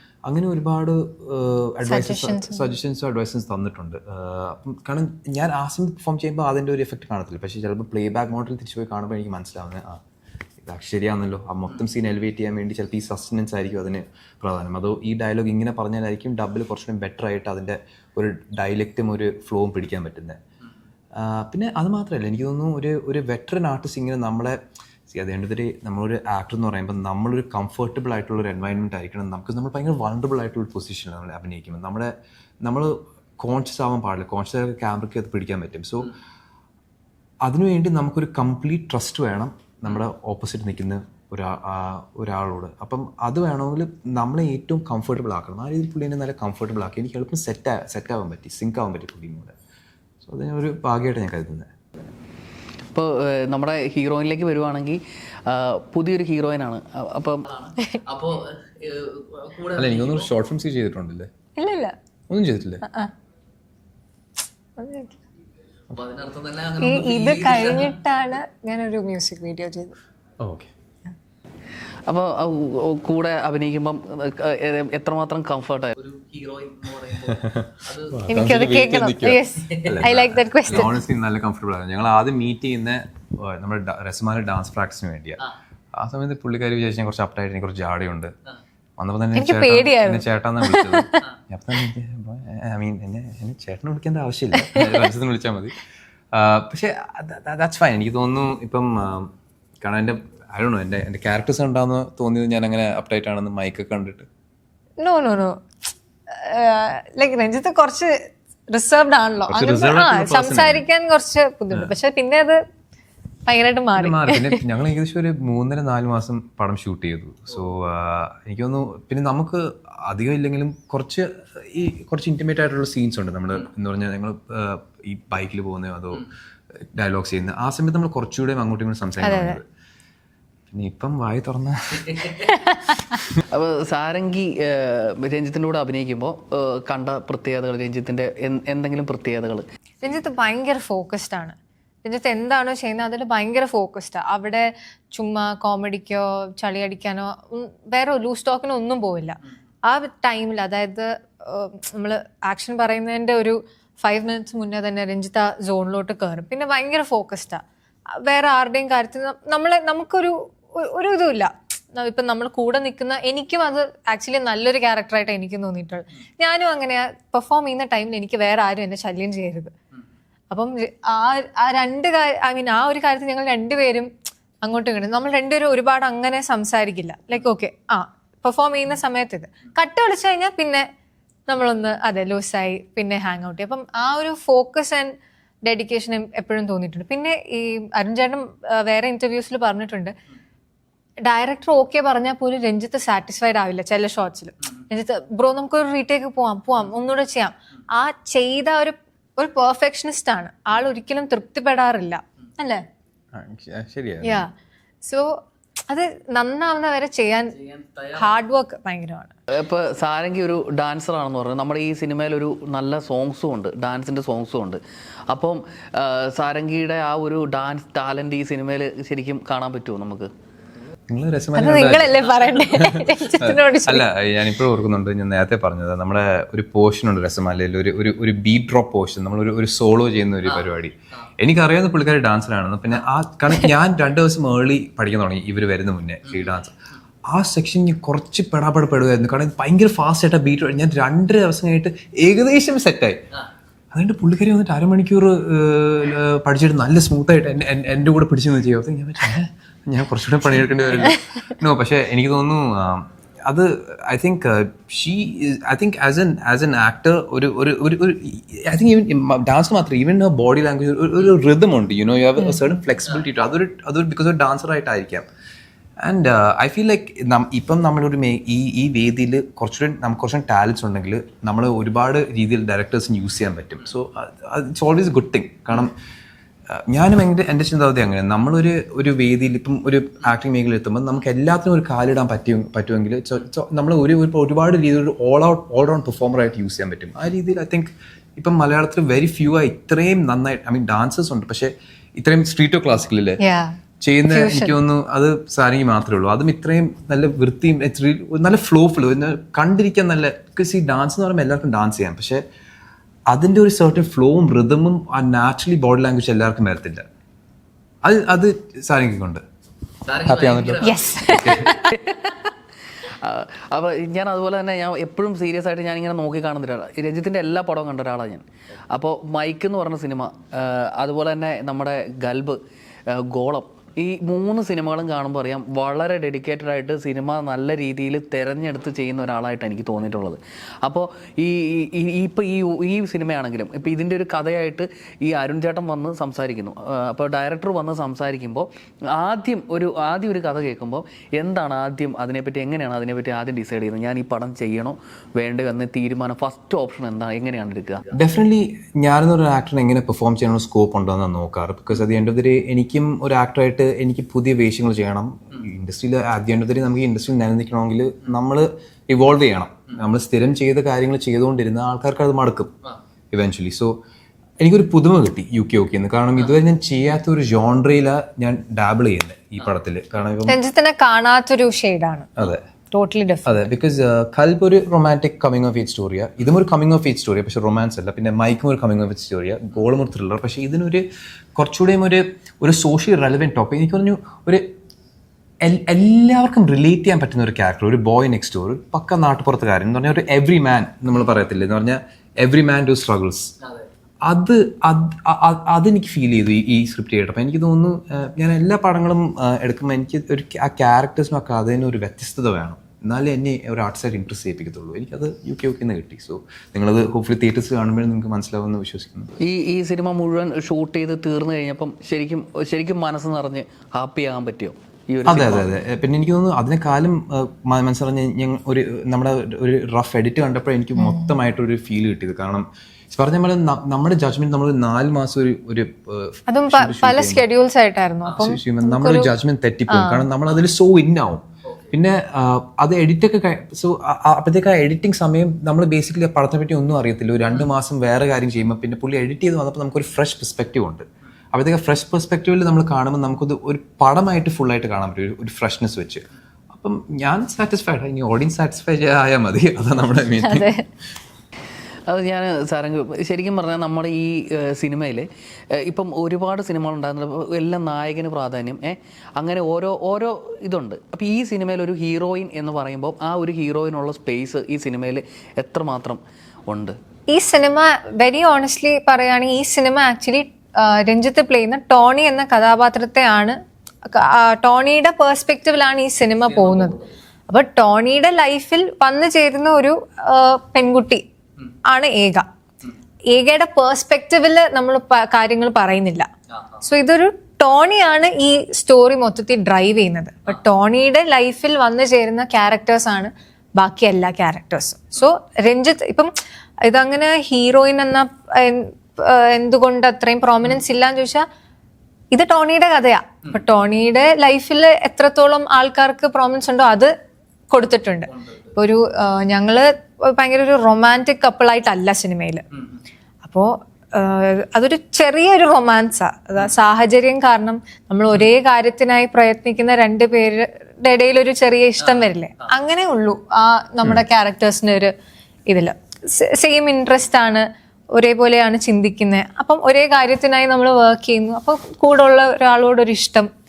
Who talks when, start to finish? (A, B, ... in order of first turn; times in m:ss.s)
0:00.2-0:10.0 A
0:01.8-0:02.6 B
0:10.6-0:20.4 A
0:21.1-0:24.6 A
0:25.1-0:36.1 A
0:37.4-0:49.5 A
0:50.2-0:52.1 A
0:52.9-1:00.2 C
0:59.8-1:01.3 A
1:01.6-1:02.0 B
1:02.3-1:02.8 A
1:02.8-1:03.1 B
1:04.8-1:05.2 B
1:06.0-1:07.9 C
1:06.8-1:10.0 B
1:10.4-1:10.7 A
1:12.1-1:17.3 C
1:17.3-1:25.4 A
1:18.3-1:21.0 B
1:25.9-1:28.3 A
1:29.0-1:35.8 A
1:29.4-1:31.3 B
1:36.3-1:44.3 A
1:45.0-1:45.6 B
1:46.3-1:52.6 B
1:49.5-1:50.8 A
1:53.4-1:54.6 B
1:54.0-2:06.3 A
2:06.9-2:09.6 A
2:09.2-2:09.6 B
2:10.7-2:12.5 A
2:12.5-2:13.2 B
2:13.5-2:19.6 C
2:20.0-2:49.7 B
2:50.5-3:00.8 B
3:01.5-3:10.1 B
3:11.2-3:22.8 B
3:23.3-3:24.4 A
3:24.2-3:24.5 B
3:25.0-3:27.6 B
3:27.6-3:28.3 C
3:28.1-3:29.3 B
3:29.5-3:40.3 C
3:41.1-3:56.7 A
3:41.6-3:44.1 B
3:57.3-4:03.3 A
4:03.9-4:25.3 A
4:26.0-4:35.9 A
4:36.7-4:53.4 A
4:53.4-4:53.8 B
4:54.0-5:02.4 A
4:54.3-4:54.7 B
5:03.3-5:07.0 A
5:08.0-5:09.4 A
5:10.1-5:12.4 C
5:10.2-5:11.8 A
5:10.8-5:12.0 B
5:13.0-5:48.1 C
5:48.1-6:02.7 A
6:03.3-6:03.9 A
6:04.6-6:10.6 A
6:10.5-6:12.4 B
6:12.4-6:12.6 A
6:12.9-6:13.7 B
6:13.4-6:21.0 A
6:21.6-6:24.6 A
6:25.6-6:33.5 A
6:34.2-6:49.3 A
6:49.4-6:55.7 C
6:55.2-7:07.4 A
7:01.0-7:01.3 B
7:06.5-7:09.3 B
7:08.3-7:30.7 A
7:09.9-7:10.2 B
7:30.4-7:30.8 B
7:32.1-7:47.0 C
7:47.3-7:53.6 B
7:54.1-7:57.0 B
7:56.5-7:57.0 C
7:57.5-8:01.2 B
8:01.9-8:02.4 B
8:03.3-8:06.3 B
8:06.8-8:21.4 B
8:22.3-8:27.1 B
8:27.7-8:32.6 B
8:28.3-8:28.6 C
8:33.4-8:45.1 B
8:45.7-8:53.5 B